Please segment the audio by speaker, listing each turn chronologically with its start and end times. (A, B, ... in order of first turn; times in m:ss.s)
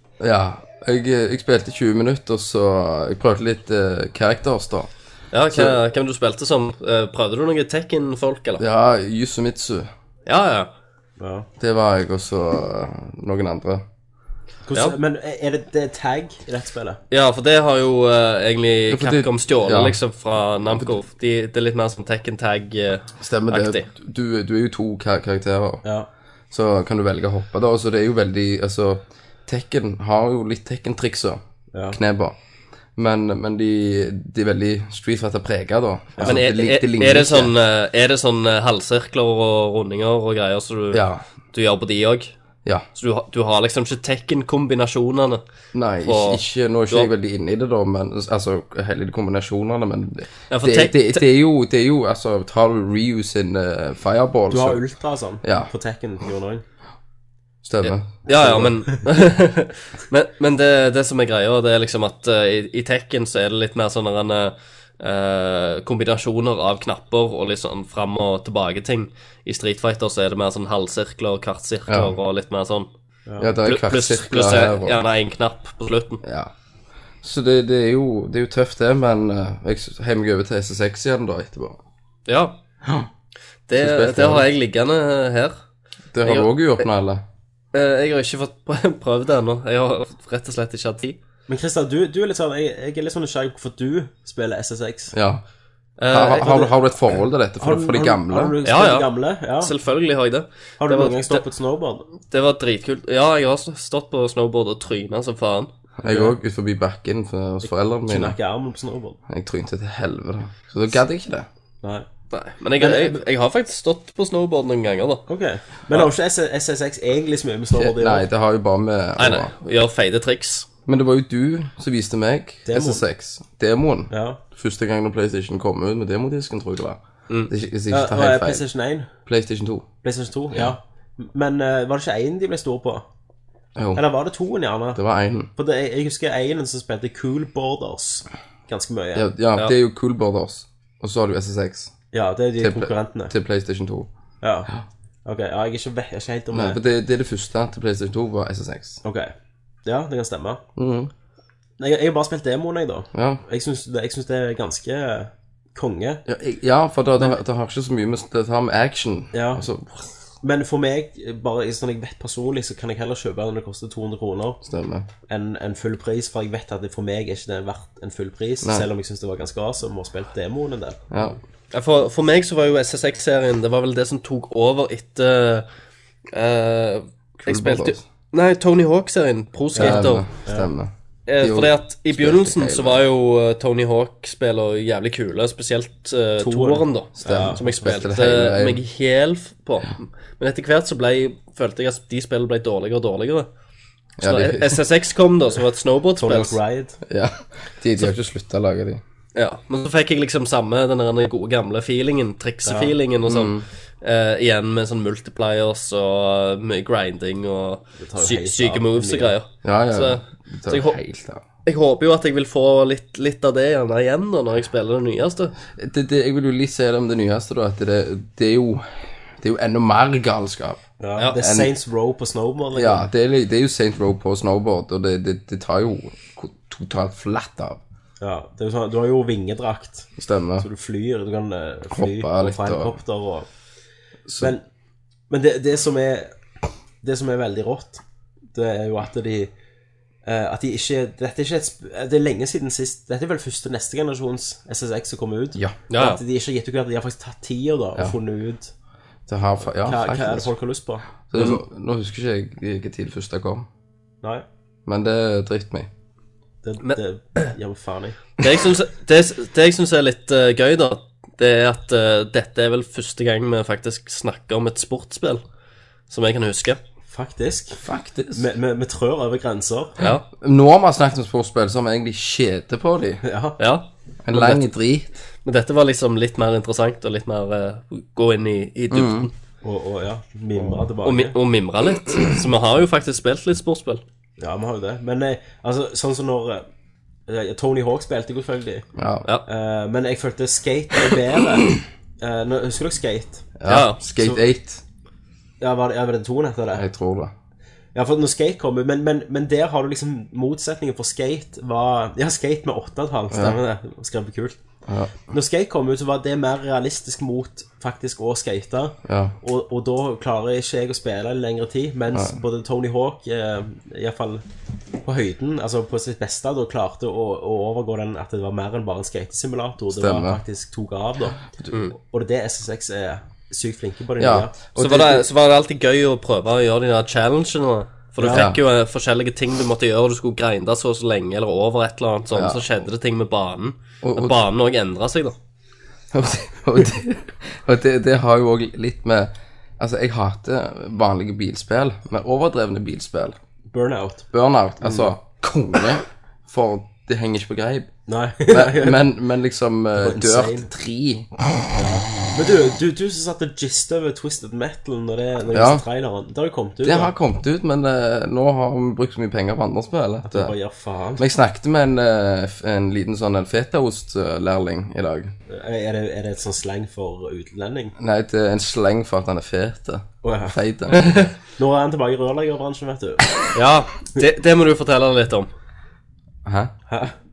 0:00.2-0:04.9 A
0:05.3-0:08.6 B
0:05.5-0:05.8 A
0:08.6-0:09.9 A
0:10.3-0:10.7 B
0:11.2-0:11.5 C
0:11.6-0:13.8 A
0:14.7-0:17.0 C
0:17.1-0:23.9 B
0:18.9-0:20.0 A
0:23.2-0:25.8 A
0:26.5-0:32.4 A
0:31.7-0:32.0 C
0:33.0-0:37.5 A
0:36.2-0:42.3 B
0:40.9-0:41.2 A
0:43.0-0:45.4 B
0:45.7-0:54.8 A
0:46.0-0:47.1 B
0:50.5-0:51.2 B
0:54.5-0:56.6 C
0:55.4-0:55.7 A
0:57.6-0:58.6 A
0:57.8-1:12.9 B
0:58.4-0:58.8 C
1:11.9-1:12.1 A
1:13.3-1:13.5 C
1:13.4-1:15.0 A
1:13.6-1:16.2 B
1:16.2-1:16.5 A
1:17.2-1:21.8 A
1:22.3-1:22.6 B
1:22.8-1:23.1 A
1:23.7-1:25.6 B
1:23.8-1:24.5 A
1:26.1-1:27.2 A
1:26.2-1:26.7 B
1:27.7-1:31.2 B
1:31.5-1:35.1 C
1:35.1-1:35.4 A
1:36.0-1:36.6 B
1:36.1-1:38.6 A
1:36.4-1:39.7 C
1:38.6-1:41.4 B
1:40.8-1:42.0 C
1:42.2-1:45.7 B
1:46.0-1:48.4 A
1:46.0-1:46.3 C
1:47.6-1:49.2 C
1:49.3-1:51.5 A
1:52.3-1:55.2 B
1:52.8-1:53.2 C
1:55.3-1:58.3 C
1:57.8-1:59.5 A
1:59.2-2:00.7 B
2:00.9-2:08.6 A
2:02.7-2:03.0 C
2:04.1-2:04.4 C
2:07.9-2:09.1 C
2:09.2-2:09.9 A
2:10.0-2:13.1 C
2:13.8-2:14.0 A
2:14.0-2:15.0 C
2:15.0-2:15.5 A
2:15.5-2:19.3 C
2:19.2-2:21.9 A
2:22.1-2:23.3 C
2:22.6-2:24.1 A
2:24.4-2:24.7 C
2:25.2-2:26.8 C
2:26.5-2:29.0 A
2:29.0-2:29.3 C
2:29.8-2:30.6 C
2:30.8-2:31.1 A
2:31.8-2:36.2 C
2:33.1-2:33.4 A
2:36.3-2:40.1 A
2:39.3-2:39.6 C
2:40.4-2:44.6 C
2:44.6-2:45.1 A
2:45.3-2:51.0 C
2:48.6-2:48.9 A
2:51.1-2:51.4 A
2:51.7-2:55.7 B
2:56.3-3:00.3 B
2:57.5-2:58.0 A
2:59.8-3:00.7 C
2:59.8-3:03.0 A
3:01.3-3:13.5 B
3:06.4-3:07.6 C
3:07.2-3:08.8 A
3:14.2-3:14.8 A
3:14.2-3:16.6 B
3:16.2-3:17.0 C
3:17.1-3:19.0 A
3:19.4-3:31.0 B
3:22.6-3:22.9 C
3:23.2-3:23.7 A
3:28.0-3:29.3 C
3:29.6-3:31.4 A
3:31.7-3:35.5 B
3:35.8-3:38.9 A
3:39.4-3:40.8 A
3:41.0-3:43.1 C
3:41.4-3:41.7 A
3:42.7-3:47.8 A
3:48.2-3:53.5 C
3:50.2-3:50.7 A
3:51.9-3:53.0 A
3:54.3-3:54.5 A
3:55.3-3:56.3 C
3:57.0-3:58.0 C
3:58.5-3:59.5 C
4:00.3-4:08.7 C
4:05.9-4:06.2 B
4:09.3-4:10.5 A
4:09.8-4:11.1 C
4:11.3-4:13.7 A
4:14.9-4:15.9 A
4:16.6-4:18.2 C
4:18.4-4:25.4 B
4:26.1-4:26.8 B
4:27.1-4:27.8 C
4:27.8-4:28.4 A
4:28.3-4:30.0 C
4:30.0-4:30.2 B
4:30.4-4:33.2 A
4:33.2-4:33.6 C
4:33.6-4:34.7 B
4:34.2-4:35.1 A
4:35.4-4:39.3 B
4:38.9-4:39.3 A
4:39.6-4:41.4 C
4:41.0-4:44.0 B
4:44.4-4:46.7 C
4:47.3-4:48.8 C
4:49.0-4:49.3 A
4:49.5-4:51.7 C
4:52.2-4:53.5 C
4:53.6-4:54.8 A
4:53.7-4:54.0 B
4:54.2-4:54.4 C
4:55.6-4:56.8 C
4:56.8-4:57.3 A
4:58.0-5:04.6 C
5:03.3-5:03.6 A
5:04.9-5:05.2 A
5:05.3-5:14.4 C
5:09.0-5:09.4 A
5:12.1-5:12.4 A
5:15.0-5:21.4 C
5:19.9-5:20.4 A
5:21.9-5:24.6 C
5:24.2-5:25.3 A
5:24.8-5:35.4 B
5:28.2-5:28.5 C
5:28.3-5:28.6 A
5:32.3-5:32.6 A
5:34.0-5:34.4 A
5:36.1-5:43.4 A
5:43.7-5:44.3 C
5:44.3-5:47.9 A
5:44.8-5:45.1 C
5:48.1-5:49.0 C
5:48.4-5:51.4 A
5:50.0-5:50.7 C
5:51.7-5:57.1 C
5:55.5-5:55.8 A
5:56.8-6:00.6 A
6:00.2-6:01.2 C
6:01.2-6:05.3 A
6:05.5-6:07.9 C
6:08.0-6:11.3 A
6:10.2-6:10.6 C
6:11.6-6:13.3 C
6:13.5-6:15.5 B
6:16.4-6:16.7 A